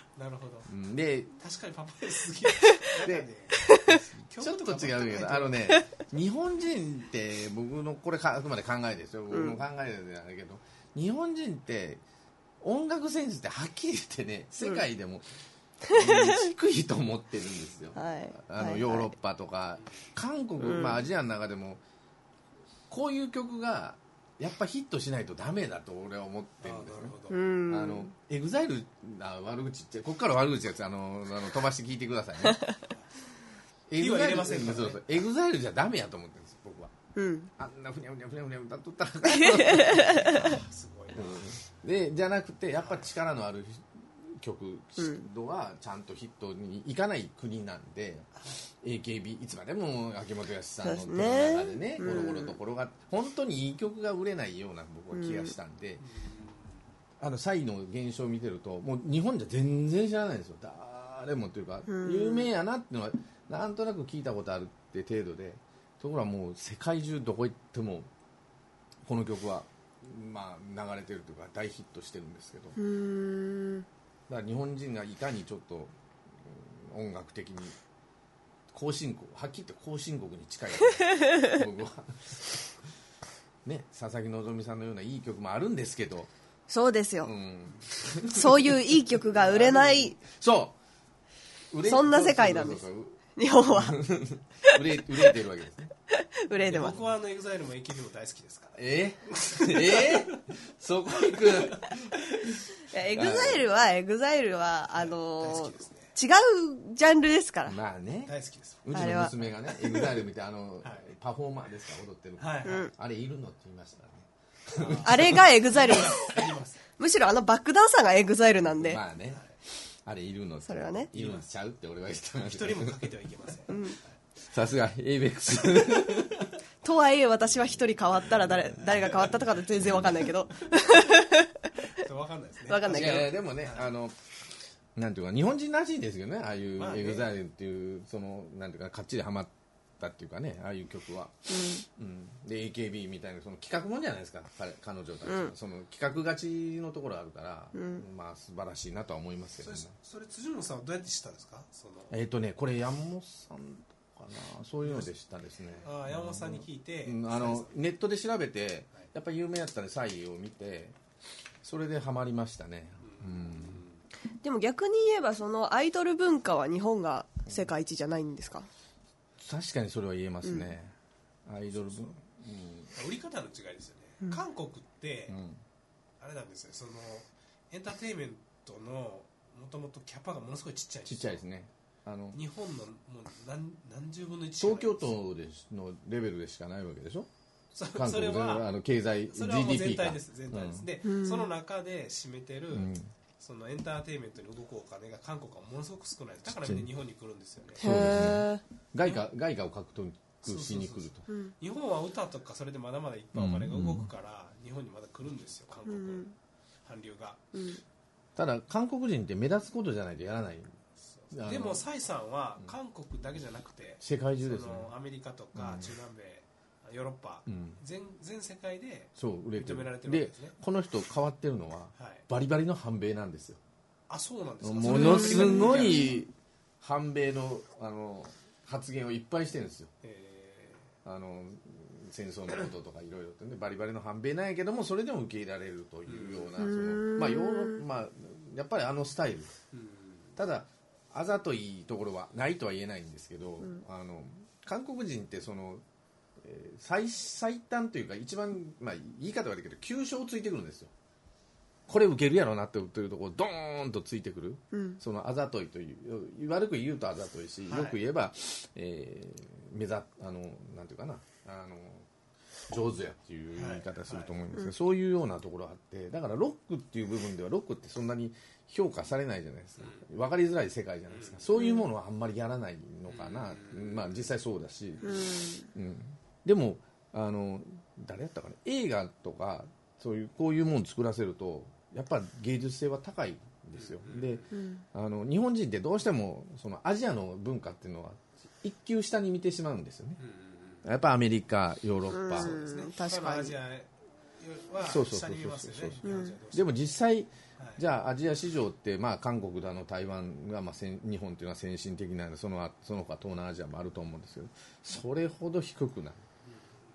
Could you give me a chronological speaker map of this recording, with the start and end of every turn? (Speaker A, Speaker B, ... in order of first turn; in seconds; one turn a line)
Speaker A: 0.1-0.7
Speaker B: 0.7-1.4
Speaker A: 1.4-5.7
Speaker B: 3.0-3.3
Speaker C: 3.6-4.0
Speaker B: 3.8-12.0
Speaker C: 9.3-9.6
Speaker B: 12.6-15.2
Speaker C: 15.8-16.2
Speaker B: 15.9-21.8
Speaker C: 17.9-19.1
Speaker C: 20.6-21.0
Speaker B: 22.9-32.6
Speaker A: 26.6-27.4
Speaker C: 27.3-28.1
Speaker C: 32.4-32.8
Speaker B: 33.9-36.9
Speaker A: 34.0-35.1
Speaker C: 37.1-37.5
Speaker B: 37.6-56.0
Speaker C: 39.3-40.4
Speaker A: 39.9-41.6
Speaker A: 42.8-43.1
Speaker C: 45.0-45.3
Speaker A: 48.4-48.6
Speaker C: 50.8-52.5
Speaker C: 55.1-55.5
Speaker A: 56.0-56.8
Speaker B: 57.2-68.1
Speaker C: 61.9-62.5
Speaker B: 69.0-72.8
Speaker C: 72.8-73.8
Speaker B: 74.3-77.8
Speaker B: 78.7-82.7
Speaker C: 81.1-81.6
Speaker B: 83.6-86.3
Speaker C: 86.7-87.3
Speaker B: 87.2-88.7
Speaker C: 88.2-90.2
Speaker A: 89.4-90.1
Speaker B: 90.2-90.8
Speaker B: 91.7-95.9
Speaker C: 91.8-94.0
Speaker C: 96.1-97.0
Speaker A: 96.6-100.4
Speaker B: 98.7-103.6
Speaker A: 101.3-102.5
Speaker C: 102.8-107.8
Speaker A: 104.9-106.1
Speaker B: 107.7-116.1
Speaker A: 108.2-110.2
Speaker C: 108.9-109.3
Speaker A: 110.8-111.1
Speaker A: 112.4-112.9
Speaker C: 112.6-112.9
Speaker A: 114.7-116.8
Speaker C: 115.0-116.4
Speaker C: 117.0-119.0
Speaker B: 118.7-119.4
Speaker B: 120.0-123.2
Speaker C: 120.7-121.1
Speaker A: 121.1-121.5
Speaker A: 122.3-124.1
Speaker C: 123.7-124.0
Speaker B: 124.4-126.5
Speaker C: 126.8-132.1
Speaker B: 129.8-130.3
Speaker A: 131.9-133.9
Speaker C: 132.7-133.2
Speaker B: 132.8-134.2
Speaker B: 134.9-149.9
Speaker A: 136.8-137.3
Speaker C: 141.5-141.8
Speaker C: 145.2-145.5
Speaker C: 147.7-148.0
Speaker A: 149.6-152.2
Speaker B: 152.1-161.0
Speaker A: 155.8-157.8
Speaker B: 161.6-163.8
Speaker A: 163.0-164.0
Speaker C: 164.4-168.7
Speaker B: 169.4-170.9
Speaker C: 170.4-170.7
Speaker B: 171.4-172.9
Speaker A: 172.9-175.4
Speaker B: 175.3-175.6
Speaker A: 176.2-181.4
Speaker B: 181.1-182.4
Speaker A: 182.3-185.2
Speaker B: 184.6-187.3
Speaker A: 187.7-188.7
Speaker B: 187.9-190.9
Speaker A: 189.3-198.2
Speaker C: 191.0-191.5
Speaker B: 192.7-193.1
Speaker B: 196.4-196.9
Speaker C: 197.8-198.6
Speaker B: 197.8-201.2
Speaker A: 200.4-206.3
Speaker C: 201.3-201.5
Speaker B: 203.3-204.1
Speaker C: 205.8-206.3
Speaker A: 206.8-207.4
Speaker C: 207.5-207.8
Speaker B: 208.3-210.8
Speaker A: 211.0-220.6
Speaker B: 211.3-211.8
Speaker B: 214.0-214.9
Speaker B: 215.5-215.9
Speaker B: 217.5-217.8
Speaker B: 219.2-223.6
Speaker A: 221.9-222.2
Speaker A: 224.1-226.2
Speaker B: 224.6-229.9
Speaker C: 224.8-225.8
Speaker A: 230.0-230.9
Speaker B: 231.0-239.5
Speaker A: 236.1-236.6
Speaker C: 236.6-237.8
Speaker A: 239.7-240.3
Speaker B: 240.4-245.8
Speaker B: 246.4-250.9
Speaker B: 251.9-262.1
Speaker C: 254.7-255.0
Speaker A: 257.7-258.0
Speaker B: 262.7-290.2
Speaker A: 263.5-264.3
Speaker A: 271.1-271.5
Speaker C: 271.6-271.8
Speaker A: 273.1-274.2
Speaker C: 275.0-275.7
Speaker A: 283.8-284.5
Speaker C: 284.5-284.8
Speaker A: 290.2-290.8
Speaker B: 290.8-292.6
Speaker C: 292.1-293.5
Speaker A: 292.3-296.8
Speaker B: 294.8-306.2
Speaker C: 296.0-296.4
Speaker A: 297.6-297.8
Speaker A: 306.5-306.7